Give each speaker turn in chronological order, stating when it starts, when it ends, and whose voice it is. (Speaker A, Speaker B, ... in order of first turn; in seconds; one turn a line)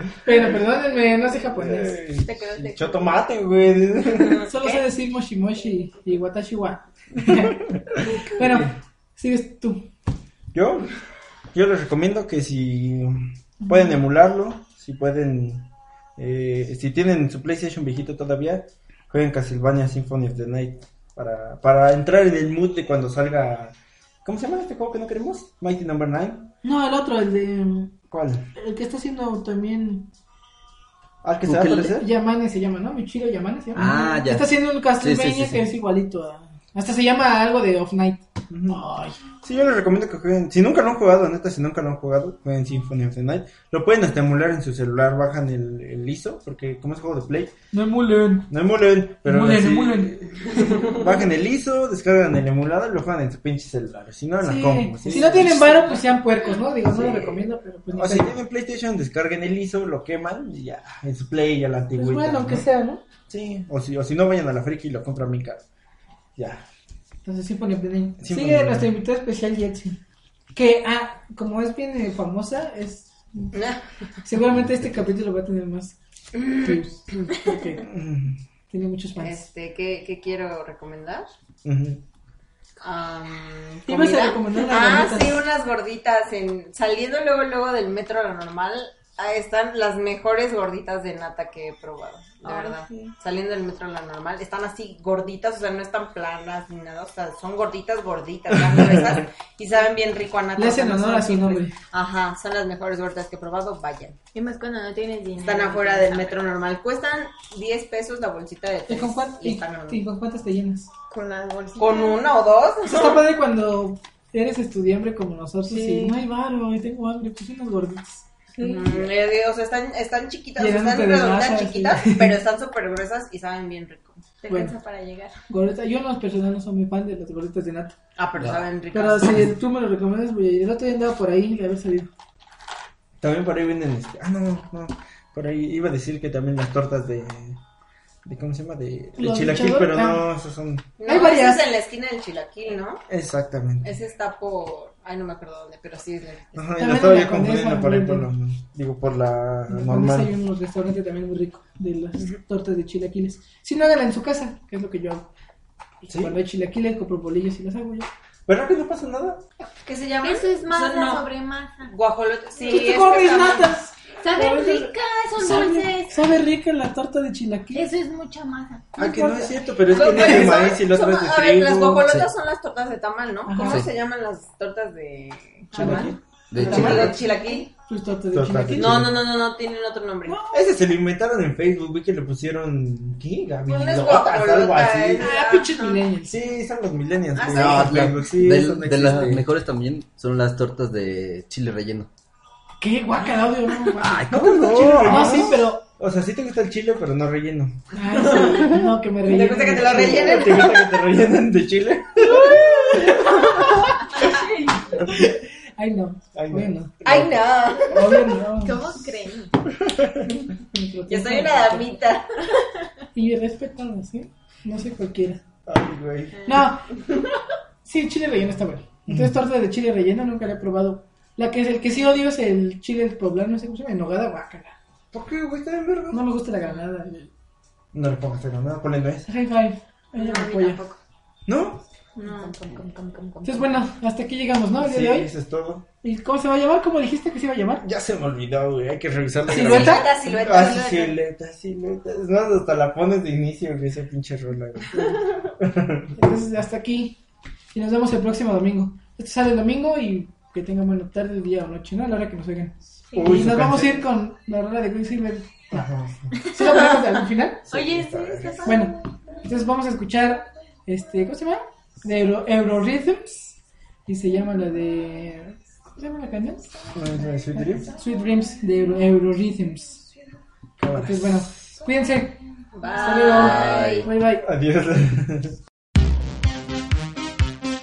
Speaker A: 0.2-2.0
Speaker B: 1.5-4.5
Speaker C: 2.3-3.2
Speaker A: 4.4-9.9
Speaker B: 7.3-8.7
Speaker B: 10.5-11.0
Speaker B: 11.5-26.5
Speaker A: 13.6-13.9
Speaker A: 26.6-27.9
Speaker B: 28.1-28.5
Speaker A: 28.6-30.1
Speaker B: 31.2-32.1
Speaker D: 31.4-32.0
Speaker A: 31.8-39.2
Speaker D: 33.7-35.7
Speaker B: 38.5-38.9
Speaker B: 39.4-47.5
Speaker A: 47.7-48.5
Speaker B: 48.5-56.0
Speaker A: 49.2-50.1
Speaker A: 54.4-58.3
Speaker B: 56.8-62.7
Speaker A: 61.9-63.0
Speaker B: 63.3-65.6
Speaker B: 66.3-66.6
Speaker A: 67.2-70.0
Speaker B: 68.2-68.9
Speaker A: 70.5-73.5
Speaker E: 73.5-73.8
Speaker A: 74.2-77.8
Speaker E: 76.4-76.8
Speaker B: 77.8-78.4
Speaker A: 78.7-79.5
Speaker E: 79.2-81.3
Speaker B: 81.6-82.0
Speaker E: 82.8-104.2
Speaker A: 83.9-85.4
Speaker B: 98.5-99.2
Speaker A: 100.5-101.7
Speaker C: 104.3-106.4
Speaker E: 105.4-110.0
Speaker A: 108.9-110.9
Speaker C: 111.1-112.3
Speaker E: 111.8-113.2
Speaker A: 112.8-119.1
Speaker C: 115.7-116.1
Speaker C: 118.5-118.9
Speaker E: 118.6-124.3
Speaker A: 120.6-122.4
Speaker C: 124.4-125.3
Speaker A: 124.5-124.7
Speaker A: 125.5-128.0
Speaker E: 128.2-129.5
Speaker A: 128.9-132.1
Speaker B: 133.2-137.6
Speaker B: 138.2-140.9
Speaker A: 139.2-140.2
Speaker E: 141.0-143.0
Speaker A: 141.0-141.6
Speaker B: 143.1-143.9
Speaker E: 143.8-146.7
Speaker B: 146.5-150.3
Speaker A: 146.8-148.3
Speaker A: 149.7-155.3
Speaker A: 156.0-158.1
Speaker B: 156.1-156.3
Speaker B: 158.5-159.4
Speaker E: 159.8-161.3
Speaker C: 160.2-161.9
Speaker E: 161.9-163.7
Speaker A: 162.6-167.9
Speaker C: 164.2-166.3
Speaker C: 167.7-168.9
Speaker B: 169.0-172.3
Speaker A: 169.0-170.5
Speaker E: 169.9-176.0
Speaker A: 173.4-173.9
Speaker A: 175.7-179.2
Speaker C: 175.7-176.1
Speaker B: 175.8-176.2
Speaker D: 176.5-177.2
Speaker E: 176.6-177.7
Speaker B: 176.7-177.0
Speaker B: 178.3-179.3
Speaker E: 178.7-180.5
Speaker B: 180.5-185.3
Speaker E: 183.7-186.0
Speaker A: 185.2-186.3
Speaker B: 186.2-189.5
Speaker E: 187.3-188.0
Speaker D: 187.4-192.1
Speaker A: 192.8-195.8
Speaker D: 194.0-195.5
Speaker B: 194.1-197.8
Speaker A: 197.9-200.3
Speaker E: 198.1-200.9
Speaker B: 199.7-203.9
Speaker C: 202.3-202.7
Speaker C: 204.2-204.9
Speaker A: 205.0-206.9
Speaker B: 206.3-207.6
Speaker E: 207.0-208.2
Speaker A: 207.9-209.0
Speaker C: 208.6-209.5
Speaker B: 209.9-210.2
Speaker A: 210.7-212.0
Speaker E: 211.1-212.4
Speaker A: 213.1-215.4
Speaker B: 215.7-216.5
Speaker A: 216.4-216.9
Speaker A: 217.8-224.8
Speaker B: 219.1-219.3
Speaker B: 225.1-226.2
Speaker A: 226.1-227.3
Speaker B: 227.9-229.3
Speaker A: 229.2-230.8
Speaker C: 230.2-231.0
Speaker B: 231.5-231.8
Speaker C: 232.2-233.5
Speaker E: 232.2-233.6
Speaker A: 233.4-235.3
Speaker B: 234.8-235.8
Speaker A: 236.0-237.8
Speaker B: 237.8-246.1
Speaker A: 239.5-240.1
Speaker E: 239.6-241.2
Speaker A: 246.1-247.2
Speaker A: 247.7-255.8
Speaker C: 253.1-253.4
Speaker B: 253.1-254.1
Speaker B: 255.7-256.3
Speaker A: 256.5-257.7
Speaker C: 256.6-257.1
Speaker B: 257.7-258.8
Speaker C: 257.7-259.0
Speaker A: 258.6-266.7
Speaker B: 266.9-267.9
Speaker A: 267.6-270.0
Speaker B: 270.8-271.5
Speaker A: 270.9-274.4
Speaker E: 272.7-274.1
Speaker C: 272.9-273.6
Speaker B: 273.7-275.6